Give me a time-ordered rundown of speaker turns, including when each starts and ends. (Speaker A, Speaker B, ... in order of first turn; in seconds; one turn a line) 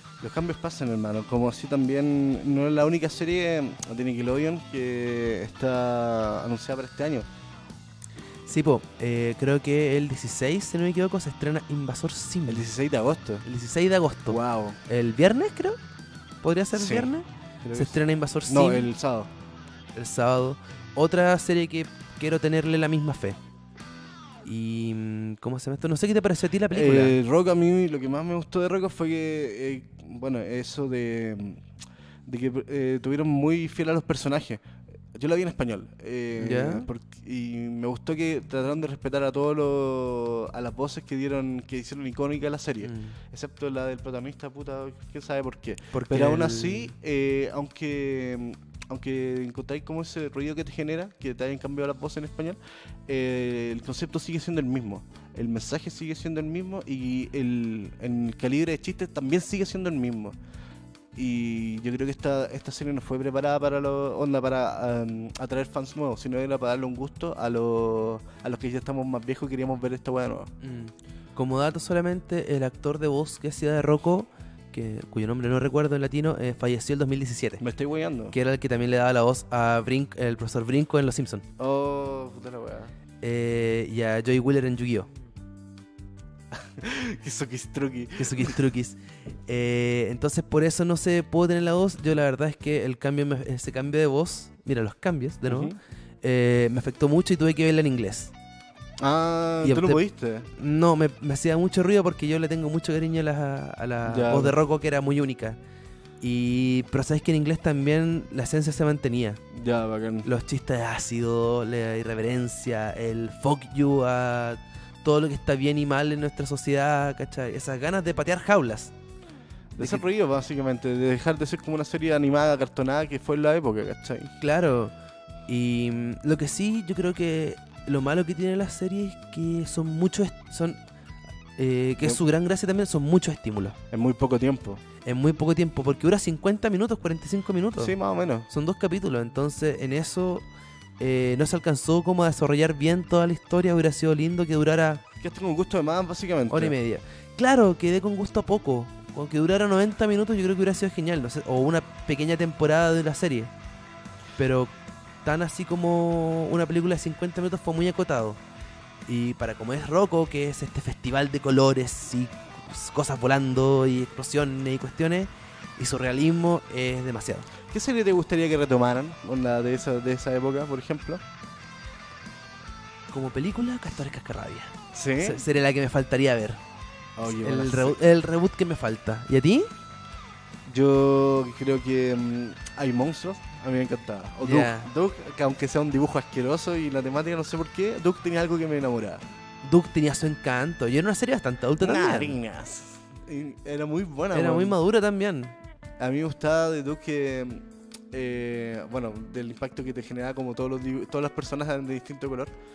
Speaker A: 0.2-7.2
Speaker B: 8.4-12.7
Speaker A: 12.5-13.4
Speaker B: 13.4-15.8
Speaker A: 14.3-14.8
Speaker B: 16.4-18.9
Speaker A: 16.7-17.1
Speaker A: 17.6-19.3
Speaker B: 19.9-23.4
Speaker B: 24.4-27.2
Speaker A: 26.7-31.6
Speaker A: 32.2-34.6
Speaker A: 35.1-60.3
Speaker B: 36.4-36.9
Speaker B: 42.8-43.2
Speaker B: 45.9-46.9
Speaker A: 61.1-70.5
Speaker B: 70.6-77.6
Speaker A: 77.6-78.3
Speaker B: 78.3-81.4
Speaker A: 81.6-82.9
Speaker B: 83.2-85.1
Speaker A: 86.5-88.6
Speaker B: 88.2-98.3
Speaker A: 95.5-95.8
Speaker A: 99.0-100.5
Speaker B: 99.6-100.0
Speaker B: 100.5-105.6
Speaker A: 104.0-104.6
Speaker B: 106.2-109.4
Speaker A: 109.5-110.3
Speaker B: 110.2-118.9
Speaker A: 119.7-124.3
Speaker B: 124.4-124.9
Speaker B: 125.5-130.8
Speaker B: 131.6-133.8
Speaker A: 133.9-134.8
Speaker B: 135.0-137.9
Speaker A: 137.8-138.5
Speaker B: 138.5-140.4
Speaker B: 141.0-145.0
Speaker A: 145.2-146.7
Speaker B: 146.5-153.5
Speaker B: 154.4-158.4
Speaker B: 159.1-167.5
Speaker A: 167.7-171.2
Speaker B: 173.1-176.6
Speaker A: 174.9-175.4
Speaker A: 177.2-177.9
Speaker B: 177.4-179.7
Speaker A: 180.7-189.2
Speaker B: 184.4-184.9
Speaker B: 189.6-192.4
Speaker A: 191.8-194.8
Speaker B: 194.3-195.6
Speaker A: 196.0-202.5